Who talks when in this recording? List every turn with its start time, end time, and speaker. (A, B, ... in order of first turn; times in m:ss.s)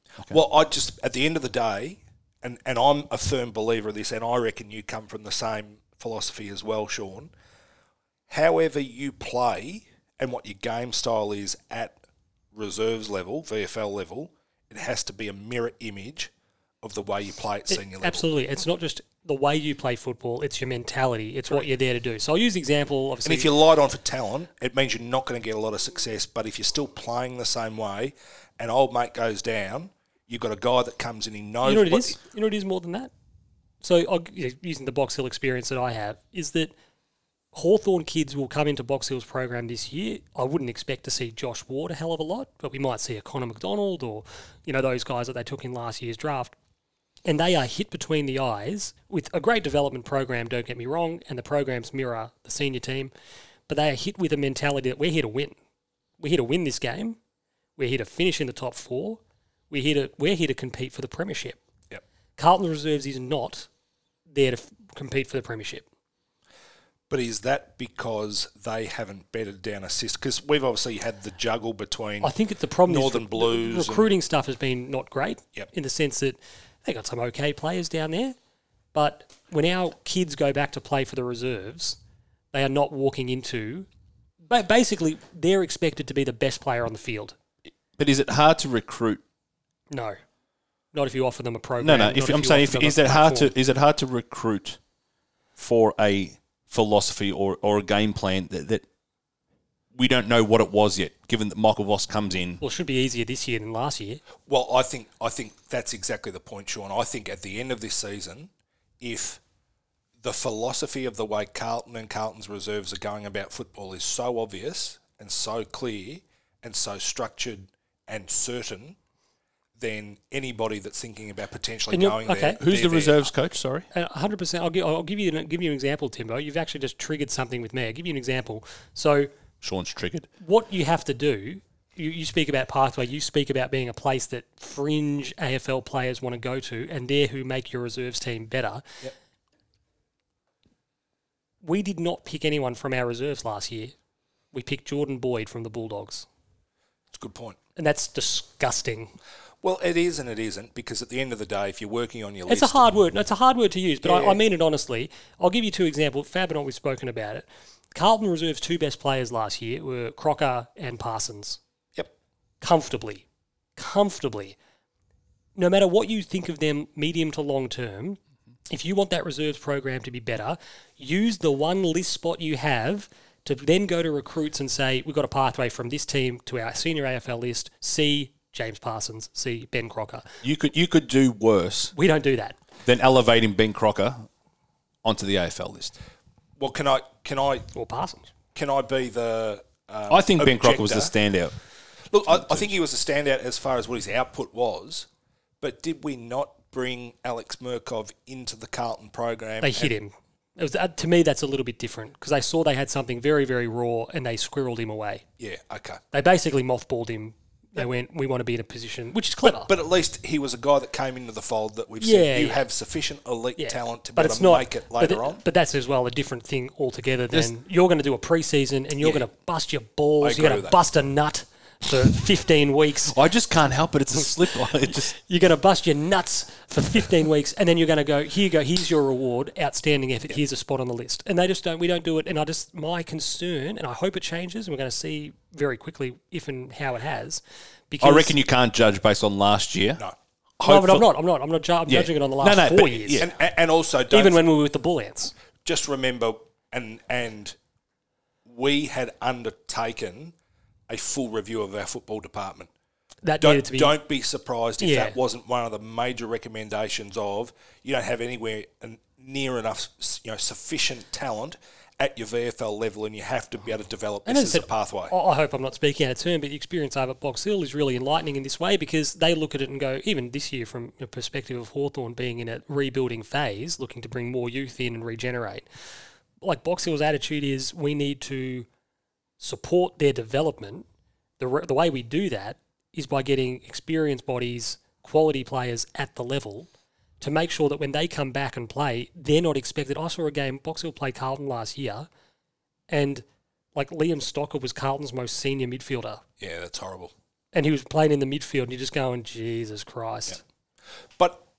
0:00.3-0:07.3 A
0:08.3-0:12.0 A
0:12.5-0:16.3 A
0:16.8-0:18.3 A
0:17.7-0:23.5 B
0:23.2-0:32.2 A
0:31.6-0:33.1 B
0:33.8-0:36.7 B
0:37.5-0:46.5 B
0:47.2-0:53.1 B
0:53.7-0:55.6 B
0:56.2-0:57.2 B
0:57.8-1:01.6 B
1:02.4-1:03.7 B
1:04.3-1:05.8 B
1:07.1-1:12.3 A
1:12.2-1:18.4 B
1:12.9-1:14.1 A
1:18.9-1:22.0 B
1:22.5-1:23.9 B
1:24.5-1:27.3 B
1:28.0-1:29.2 C
1:29.9-1:30.2 B
1:30.9-1:33.5 B
1:31.8-1:34.8 C
1:35.6-1:38.8 C
1:39.9-1:42.6 C
1:42.6-1:44.2 B
1:44.4-1:49.4 A
1:50.2-1:59.0 A
1:59.8-2:03.3 A
2:01.9-2:02.6 B
2:02.6-2:03.9 C
2:03.9-2:09.3 B
2:09.6-2:10.3 C
2:10.4-2:18.8 B
2:21.6-2:23.9 B
2:24.5-2:26.3 B
2:27.1-2:27.6 A
2:27.8-2:29.1 B
2:29.6-2:32.9 A
2:32.5-2:41.6 B
2:34.0-2:34.4 A
2:42.6-2:43.2 B
2:43.8-2:44.6 B
2:45.6-3:00.3 B
3:00.4-3:01.9 C
3:01.9-3:02.6 B
3:02.8-3:04.3 C
3:05.0-3:06.0 C
3:06.6-3:07.7 A
3:07.7-3:08.3 B
3:08.5-3:11.1 A
3:10.1-3:11.5 C
3:12.1-3:15.1 A
3:12.3-3:12.7 C
3:15.6-3:19.9 A
3:19.6-3:25.2 B
3:25.4-3:26.0 A
3:26.1-3:29.7 B
3:29.4-3:35.4 A
3:32.0-3:32.6 B
3:33.6-3:43.2 B
3:40.2-3:40.8 A
3:43.1-3:45.1 C
3:45.1-3:58.3 B
3:58.0-4:00.0 C
4:00.6-4:01.1 C
4:00.6-4:03.2 B
4:01.9-4:03.3 C
4:03.2-4:04.4 A
4:04.1-4:05.3 B
4:05.6-4:07.6 A
4:08.4-4:10.3 A
4:10.9-4:12.7 A
4:13.2-4:14.0 B
4:13.4-4:25.1 A
4:14.8-4:15.2 B
4:24.2-4:35.7 B
4:36.4-4:38.7 B
4:39.4-4:40.9 B
4:41.4-4:46.7 B
4:47.2-4:52.1 B
4:52.9-4:56.2 B
4:56.4-4:57.1 A
4:57.5-5:00.4 B
5:01.2-5:01.4 A